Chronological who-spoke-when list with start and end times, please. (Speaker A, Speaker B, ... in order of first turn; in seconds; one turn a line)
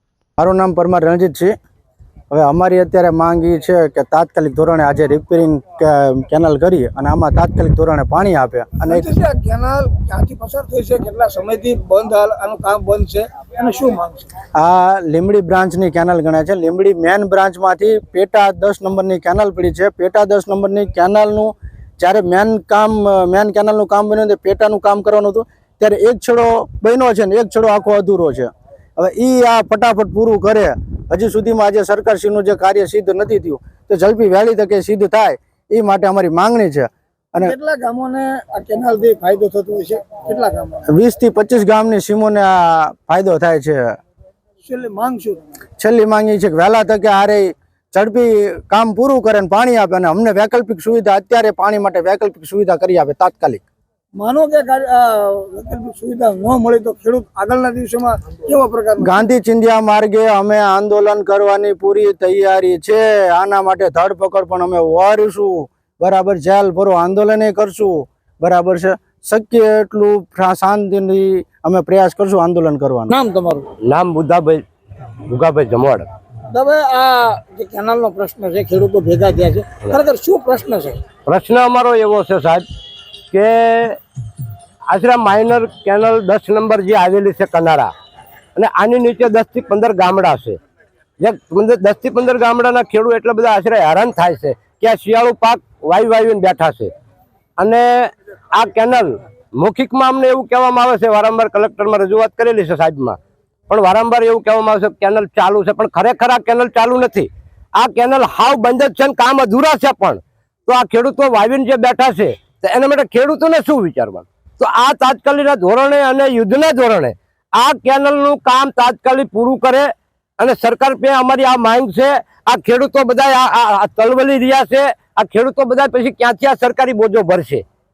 Speaker A: 0.4-1.5
Speaker A: 2.3-9.1
Speaker B: 8.9-14.3
Speaker A: 14.6-37.5
Speaker B: 37.4-40.8
Speaker A: 40.9-44.0
Speaker B: 44.6-45.6
Speaker A: 45.8-53.6
Speaker B: 54.2-59.2
Speaker A: 59.0-73.1
Speaker B: 73.1-73.7
Speaker C: 73.9-74.6
Speaker C: 75.3-76.1
Speaker B: 76.5-81.0
Speaker C: 81.2-82.6
Speaker C: 83.3-84.0
Speaker C: 84.9-87.9
Speaker C: 88.5-90.6
Speaker C: 91.2-96.9
Speaker C: 97.6-103.2
Speaker C: 103.7-127.6